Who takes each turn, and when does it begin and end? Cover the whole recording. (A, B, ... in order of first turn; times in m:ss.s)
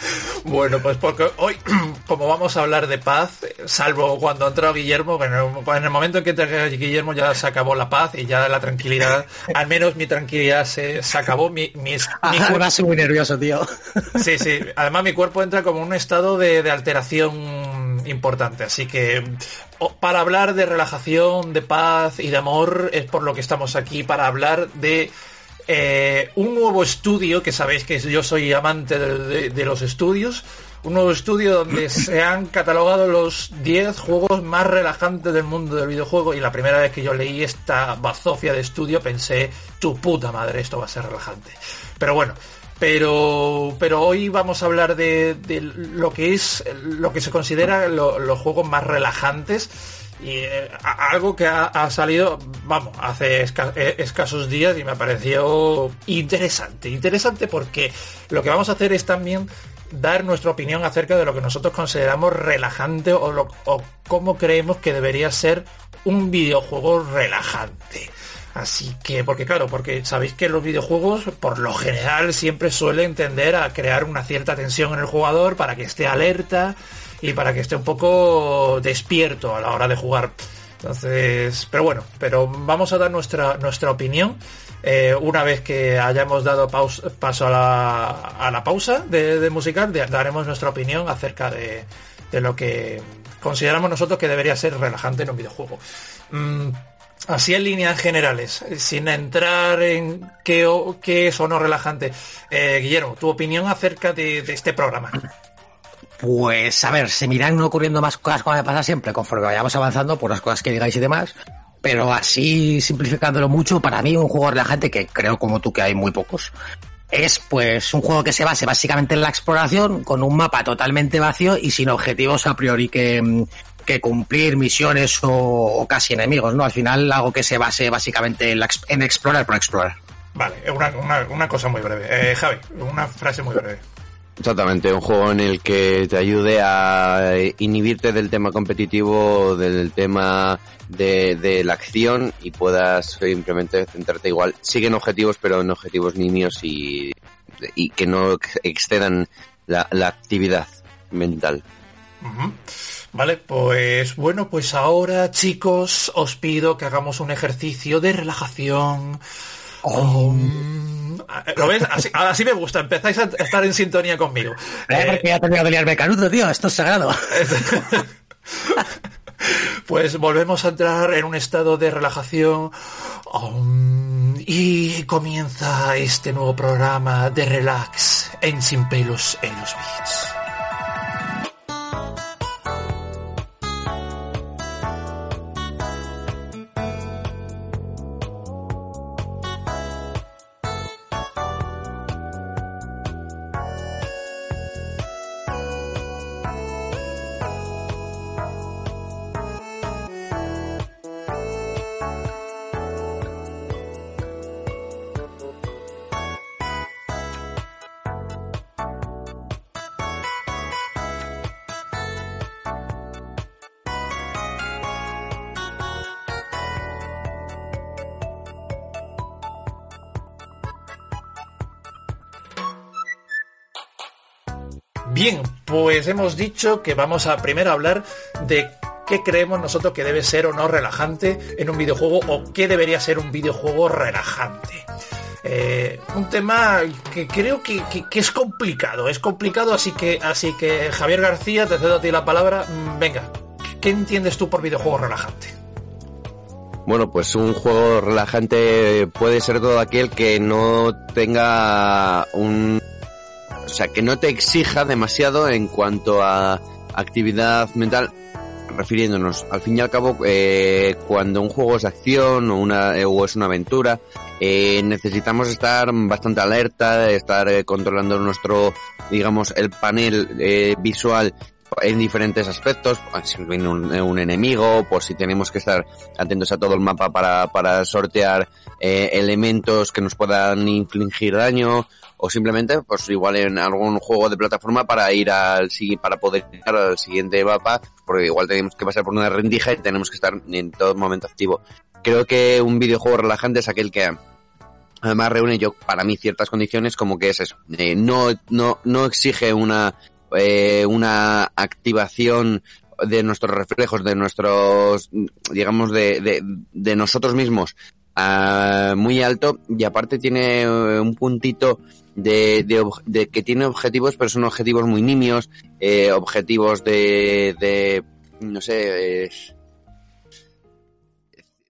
0:00.4-0:12.7 A
0:12.2-0:13.7 B
0:14.2-0:25.1 A
0:25.7-1:45.2 A
1:46.2-1:56.5 B
1:57.1-2:10.0 B
2:10.3-2:13.8 A
2:14.4-2:27.1 C
2:27.7-2:31.6 C
2:32.2-2:32.6 A
2:33.1-2:39.2 A
2:39.8-2:40.6 B
2:39.9-2:45.3 A
2:44.9-2:47.5 B
2:47.3-2:48.1 A
2:49.4-3:00.4 A
3:45.0-3:54.9 A
3:55.4-4:05.5 A
4:06.8-4:12.8 C
4:13.7-4:18.1 C
4:18.7-4:54.1 C
4:55.0-5:19.5 C